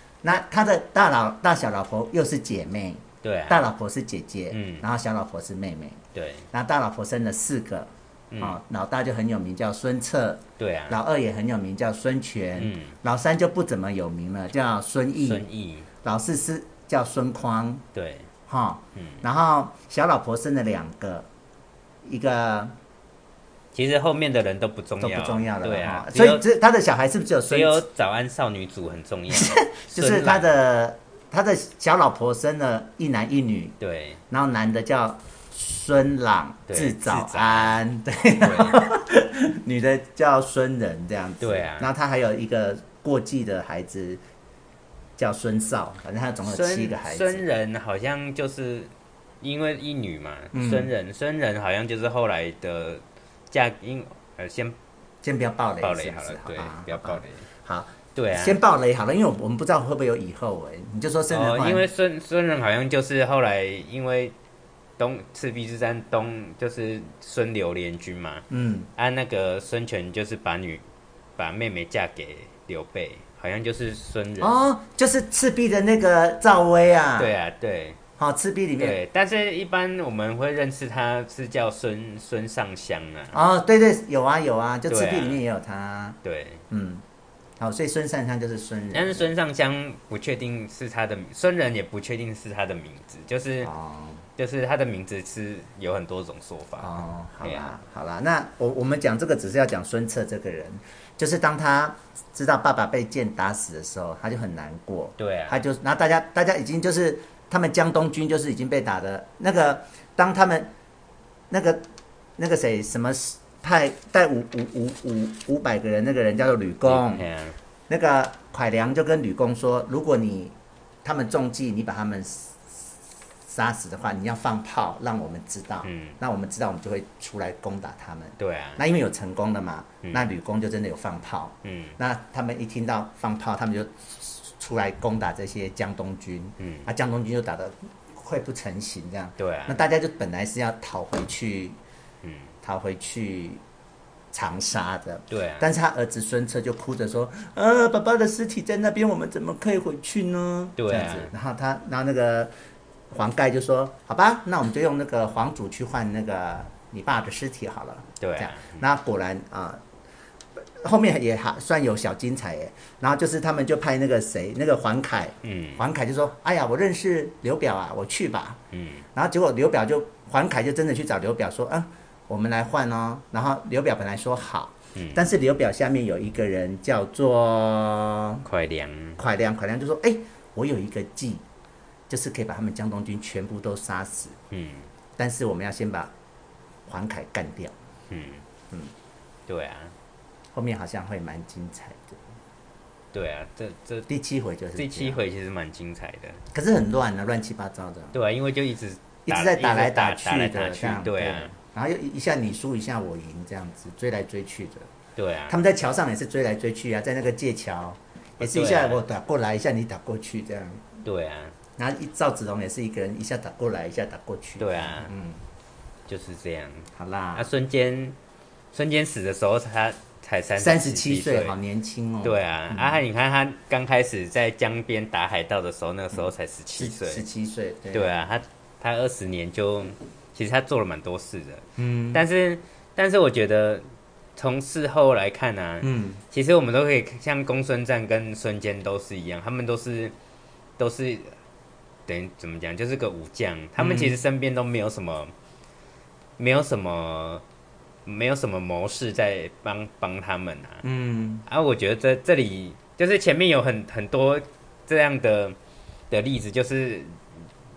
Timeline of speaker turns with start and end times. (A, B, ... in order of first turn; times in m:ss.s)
0:00.2-0:06.0 A
0:03.2-0:03.6 B
0:04.5-0:04.8 B
0:06.1-0:06.5 B
0:06.5-0:15.4 A
0:08.3-0:08.6 B
0:10.6-0:11.0 B
0:12.6-0:13.0 B
0:15.2-0:15.9 B
0:16.0-0:17.8 A
0:17.9-0:18.3 B
0:18.5-0:21.3 A
0:18.9-0:19.2 B
0:22.0-0:22.7 A
0:23.7-0:26.4 B
0:25.0-0:27.8 A
0:27.5-0:30.5 B
0:29.3-0:33.8 A
0:33.8-0:34.2 B
0:34.3-0:44.2 A
0:36.7-0:37.8 B
0:38.4-0:38.8 B
0:41.4-0:41.9 B
0:45.2-0:47.4 A
0:46.4-0:54.8 B
0:50.5-0:50.9 A
0:55.2-1:01.8 A
0:55.8-0:57.4 B
0:58.1-0:58.6 B
1:01.3-1:04.3 B
1:05.0-1:10.8 B
1:08.5-1:08.9 A
1:11.4-1:14.5 B
1:14.4-1:17.3 A
1:17.2-1:18.0 B
1:18.2-1:19.0 A
1:18.8-1:23.4 B
1:23.3-1:26.2 A
1:24.9-1:25.4 B
1:26.2-1:26.6 B
1:26.7-1:27.0 A
1:27.6-1:29.3 A
1:28.9-1:33.7 B
1:33.6-1:34.2 A
1:34.4-1:37.7 B
1:36.8-1:50.7 A
1:45.2-1:45.6 B
1:51.5-1:51.8 A
1:52.4-1:57.2 A
1:56.8-1:57.6 B
1:57.9-2:02.9 A
2:03.5-2:21.8 A
2:05.8-2:06.2 B
2:08.4-2:08.8 B
2:11.6-2:12.0 B
2:16.6-2:16.9 B
2:19.4-2:19.8 B
2:22.2-2:22.5 B
2:22.6-2:23.6 A
2:24.3-2:32.5 A
2:25.3-2:25.7 B
2:30.8-2:31.3 B
2:33.1-2:39.8 A
2:38.2-2:38.8 B
2:40.6-2:48.6 A
2:45.4-2:45.8 B
2:48.7-2:49.0 B
2:49.1-2:58.4 A
2:54.9-2:55.2 B
2:58.4-2:59.2 B
2:59.2-3:01.4 A
3:02.1-3:04.4 A
3:04.5-3:04.9 B
3:05.2-3:06.1 A
3:06.9-3:07.7 A
3:08.1-3:08.4 B
3:09.5-3:09.9 B
3:10.5-3:12.2 A
3:13.1-3:14.1 B
3:14.1-3:15.2 A
3:14.7-3:16.4 B
3:16.5-3:18.2 A
3:18.1-3:21.5 B
3:19.2-3:24.9 A
3:25.2-3:25.6 B
3:25.5-3:30.9 A
3:28.4-3:29.0 B
3:31.0-3:31.5 B
3:31.8-3:35.4 A
3:34.6-3:35.1 B
3:36.1-3:38.2 B
3:37.0-3:37.5 A
3:38.7-3:41.5 B
3:40.6-3:43.0 A
3:42.2-3:47.2 B
3:46.1-3:48.1 A
3:47.9-3:53.8 B
3:51.8-3:52.2 A
3:54.4-4:00.1 B
3:55.8-3:56.2 A
4:00.8-4:01.3 B
4:02.1-4:05.3 B
4:03.8-4:04.2 A
4:06.4-4:07.4 B
4:08.0-4:10.8 B
4:10.8-4:11.4 A
4:11.4-4:15.6 B
4:16.1-4:17.2 B